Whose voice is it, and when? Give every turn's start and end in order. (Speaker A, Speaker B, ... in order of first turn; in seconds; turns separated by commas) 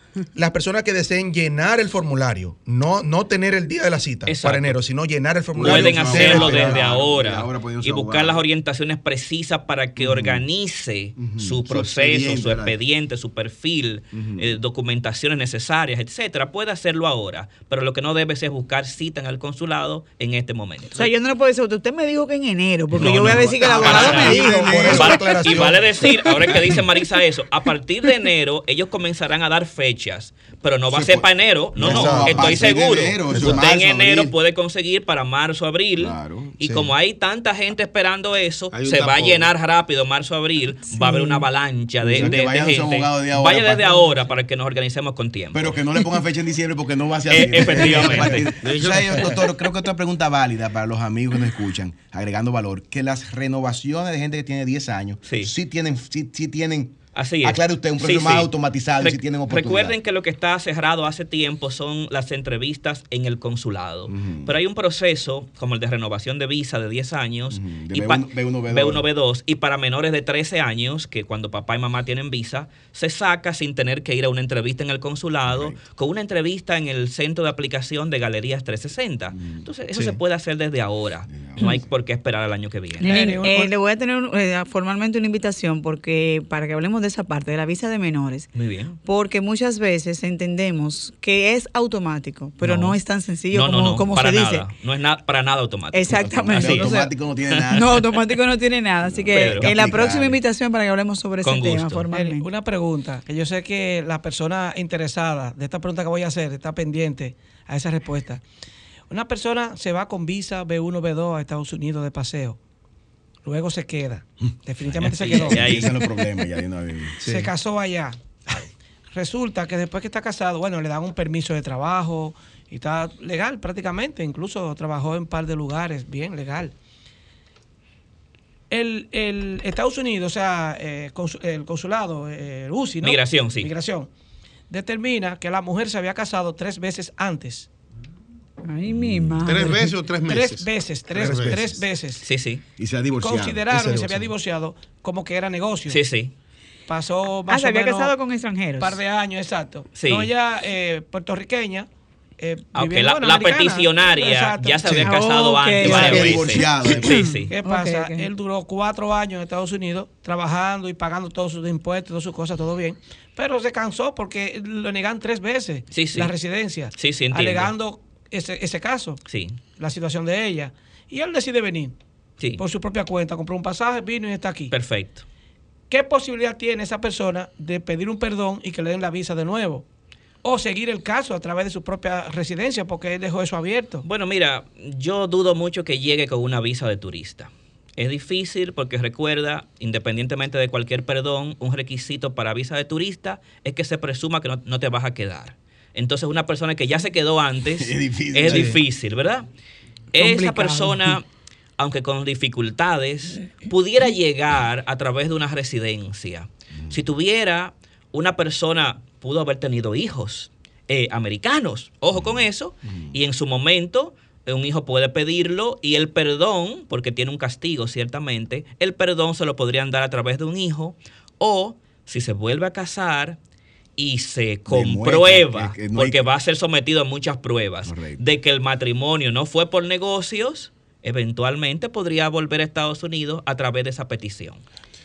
Speaker A: 0.3-6.9, Speaker B: 4.3-4.8, Speaker C: 5.6-8.4, Speaker B: 5.6-21.1, Speaker C: 10.0-10.5, Speaker C: 11.2-12.8, Speaker C: 14.1-14.6, Speaker D: 20.9-25.4, Speaker B: 22.9-46.0, Speaker C: 23.0-25.8, Speaker A: 23.5-26.7, Speaker C: 26.4-26.8, Speaker C: 30.9-34.4, Speaker A: 31.8-33.6, Speaker C: 36.0-36.6, Speaker A: 36.6-36.9, Speaker E: 38.7-39.5, Speaker D: 40.9-41.5, Speaker C: 42.0-44.2, Speaker C: 45.5-60.0, Speaker B: 47.3-48.6, Speaker E: 48.5-49.3, Speaker B: 55.2-55.5, Speaker B: 57.1-83.3, Speaker C: 64.1-64.6, Speaker C: 67.5-69.1, Speaker C: 75.5-75.8, Speaker C: 79.3-80.0, Speaker C: 81.3-81.9, Speaker F: 83.0-83.7, Speaker D: 83.0-88.5, Speaker B: 88.5-89.0, Speaker D: 89.0-94.7, Speaker B: 92.6-93.0, Speaker B: 93.5-97.0, Speaker D: 95.9-97.2, Speaker C: 96.1-98.1, Speaker D: 97.7-102.5, Speaker C: 99.0-100.4, Speaker B: 99.3-99.7, Speaker B: 101.4-102.1, Speaker F: 102.1-108.4, Speaker F: 109.1-112.6, Speaker F: 113.4-115.8, Speaker C: 114.8-117.2, Speaker B: 115.0-116.0, Speaker A: 117.2-117.5, Speaker F: 117.2-118.2, Speaker F: 119.1-126.7, Speaker F: 128.7-134.1, Speaker B: 133.0-133.7, Speaker F: 134.7-137.7, Speaker D: 138.7-139.9, Speaker C: 138.8-139.7, Speaker E: 139.4-141.6, Speaker F: 140.2-142.2, Speaker A: 141.2-141.8, Speaker B: 142.2-142.6, Speaker C: 142.8-143.6, Speaker F: 143.2-146.0, Speaker A: 143.7-144.3, Speaker B: 145.9-146.3, Speaker F: 146.9-148.1, Speaker D: 147.5-149.0, Speaker F: 148.8-155.2, Speaker B: 149.9-150.3, Speaker B: 152.7-157.6, Speaker D: 155.1-158.3, Speaker C: 155.8-157.2, Speaker F: 155.9-156.3, Speaker F: 157.5-172.0, Speaker B: 165.9-166.3, Speaker B: 166.9-167.7, Speaker B: 169.3-169.6, Speaker F: 172.6-174.8, Speaker B: 174.7-175.2, Speaker F: 175.9-179.8, Speaker F: 180.4-184.1, Speaker B: 184.0-199.5, Speaker C: 197.7-198.8, Speaker A: 198.5-198.8, Speaker B: 200.1-201.2, Speaker D: 200.1-201.2, Speaker B: 201.8-223.4, Speaker C: 206.7-207.1, Speaker C: 212.1-213.2, Speaker B: 224.0-234.6, Speaker C: 224.7-226.2, Speaker C: 227.8-228.2